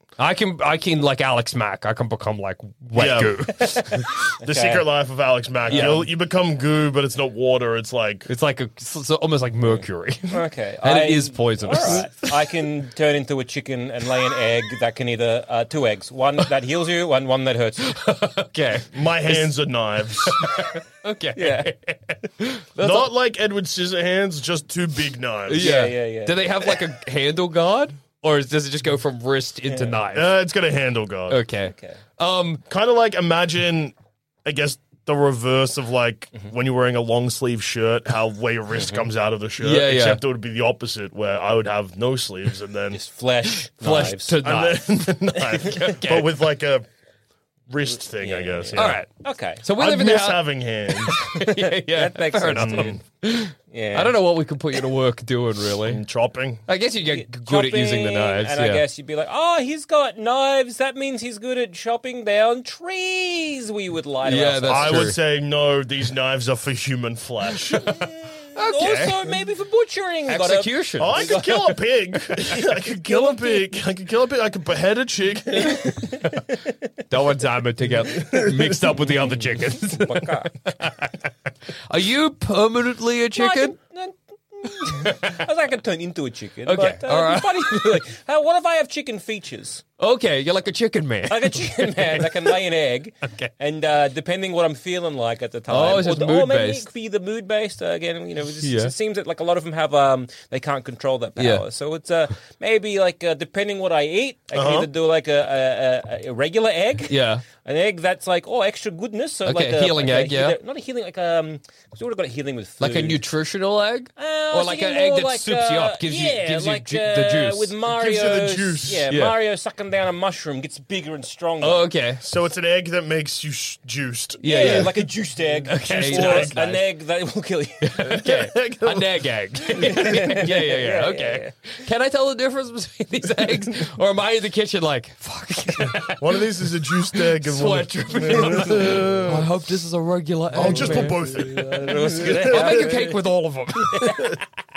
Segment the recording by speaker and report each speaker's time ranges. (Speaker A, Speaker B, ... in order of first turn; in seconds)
Speaker A: 0.2-4.1, 5.7-6.1, 8.3-12.3, 17.8-19.5, 20.2-23.1, 25.5-30.3, 31.3-32.6, 39.6-40.2, 43.8-46.3, 48.8-49.1, 49.6-56.0, 56.7-58.8, 64.2-65.2, 68.5-69.3, 70.3-71.3, 77.1-81.2, 81.9-83.8, 84.8-85.4, 86.7-88.0, 90.0-92.5, 95.7-96.9, 98.6-98.9, 101.4-101.6, 107.1-107.4, 109.5-110.6, 112.8-117.7, 121.6-122.2, 124.4-125.1, 125.7-126.7, 127.8-144.4
Speaker B: 2.9-3.5, 4.4-8.3, 18.9-20.4, 22.8-25.7, 30.1-31.4, 32.7-43.0, 44.4-46.9, 47.7-49.0, 49.8-51.2, 52.5-53.0, 55.8-56.6, 64.7-67.9, 71.0-76.2, 78.2-79.0, 104.5-104.9, 117.8-119.1, 122.2-126.8, 128.0-129.3, 135.8-139.5, 140.5-143.1
Speaker C: 3.6-4.8, 5.7-6.0, 9.6-18.0, 21.3-21.7, 25.6-26.8, 29.7-29.9, 31.6-32.0, 42.9-44.4, 48.2-49.6, 51.3-53.0, 53.7-54.2, 57.0-65.1, 67.9-71.8, 73.1-73.6, 79.9-80.5, 83.3-89.8, 91.3-113.2, 114.2-121.9, 124.4-128.2, 129.7-131.5, 140.6-143.2, 143.9-144.3